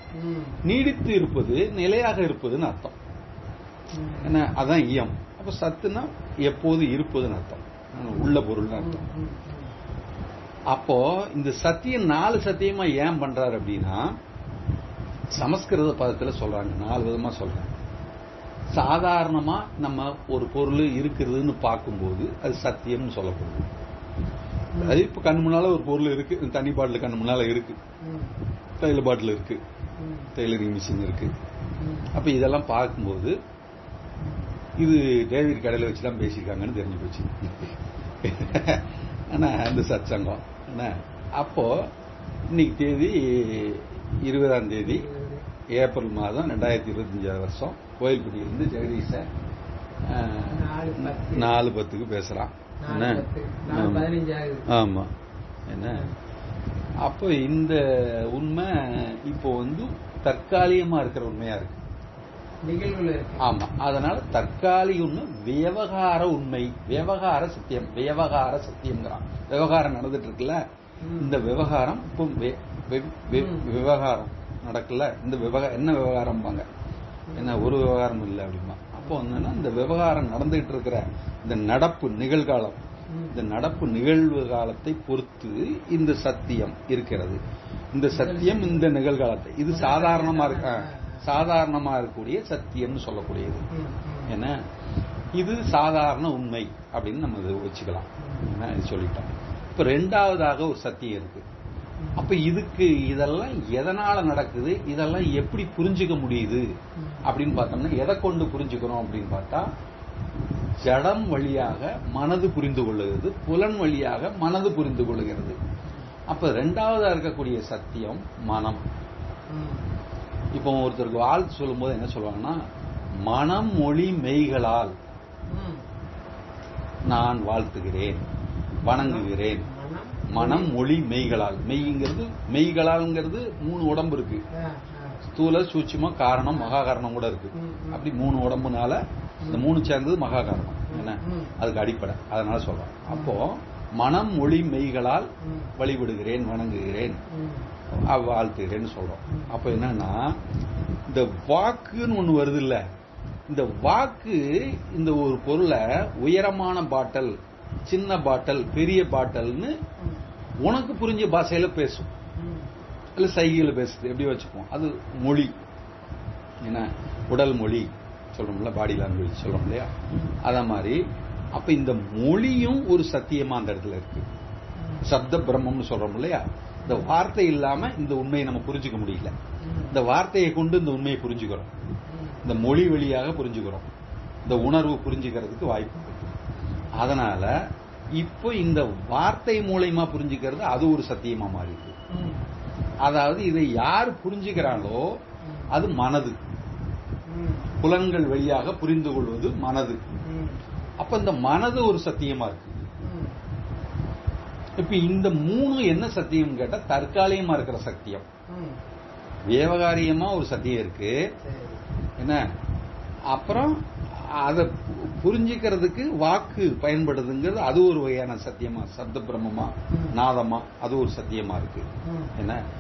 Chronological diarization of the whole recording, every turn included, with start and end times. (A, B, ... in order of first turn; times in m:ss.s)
0:00.1-0:00.6 A
0:00.6-0:03.0 B
0:03.9-0:04.3 A
0:04.2-0:08.9 B
0:08.1-0:09.7 A
0:10.7-0:14.2 B
0:15.3-0:17.7 B
0:18.7-0:23.7 B
0:24.7-0:25.0 A
0:24.8-0:27.8 B
0:28.0-0:28.4 A
0:28.8-0:29.6 B
0:30.0-0:30.3 A
0:30.4-0:31.3 B
0:31.8-0:32.1 A
0:32.1-0:33.4 B
0:34.2-0:34.6 A
0:34.8-0:41.9 B
0:42.5-0:45.1 B
0:44.8-0:45.5 A
0:45.7-0:49.3 B
0:50.1-0:54.1 B
0:50.5-0:51.6 A
0:52.8-0:54.7 A
0:54.7-0:55.1 B
0:55.7-0:56.1 B
0:55.8-0:56.1 A
0:57.0-1:01.8 B
1:02.6-1:03.4 A
1:03.4-1:10.6 B
1:11.0-1:11.4 A
1:11.2-1:16.7 B
1:13.3-1:13.7 A
1:17.3-1:17.8 A
1:17.4-1:22.8 B
1:23.1-1:23.4 A
1:23.3-1:27.4 B
1:27.9-1:33.7 B
1:28.1-1:28.9 A
1:29.7-1:31.2 A
1:33.7-1:34.4 A
1:34.3-1:34.6 B
1:35.4-1:41.4 B
1:38.2-1:38.5 A
1:42.0-1:42.3 A
1:42.2-1:46.7 B
1:47.0-1:47.3 A
1:47.2-1:49.7 B
1:50.8-1:55.6 B
1:56.3-1:58.8 B
1:59.5-1:59.9 A
2:00.6-2:02.6 B
2:03.3-2:05.0 B
2:05.5-2:05.9 A
2:07.1-2:08.2 B
2:08.8-2:09.7 B
2:08.9-2:10.7 A
2:10.3-2:14.4 B
2:14.5-2:15.2 A
2:15.3-2:27.2 B
2:16.5-2:16.8 A
2:17.5-2:18.1 A
2:19.4-2:19.7 A
2:20.9-2:21.6 A
2:23.1-2:23.4 A
2:25.4-2:25.7 A
2:27.3-2:27.7 A
2:28.1-2:30.4 B
2:29.3-2:29.6 A
2:31.1-2:32.8 B
2:33.5-2:37.4 B
2:37.9-2:39.8 B
2:40.6-2:42.1 B
2:42.4-2:42.7 A
2:43.2-2:45.6 B
2:46.6-2:51.0 B
2:50.1-2:50.4 A
2:51.6-2:54.2 B
2:54.8-2:55.2 A
2:55.0-2:59.3 B
2:59.6-3:00.0 A
2:59.9-3:01.7 B
3:02.1-3:02.4 A
3:02.4-3:03.9 B
3:04.5-3:06.4 B
3:06.9-3:12.0 B
3:12.1-3:12.5 A
3:13.0-3:16.4 B
3:15.4-3:15.7 A
3:17.3-3:17.7 A
3:17.8-3:20.1 B
3:20.2-3:20.6 A
3:21.0-3:22.8 B
3:23.0-3:23.4 A
3:24.8-3:28.3 B
3:28.5-3:28.8 A
3:29.5-3:31.3 B
3:31.4-3:31.8 A
3:33.3-3:42.6 B
3:39.9-3:40.2 A
3:42.0-3:42.3 A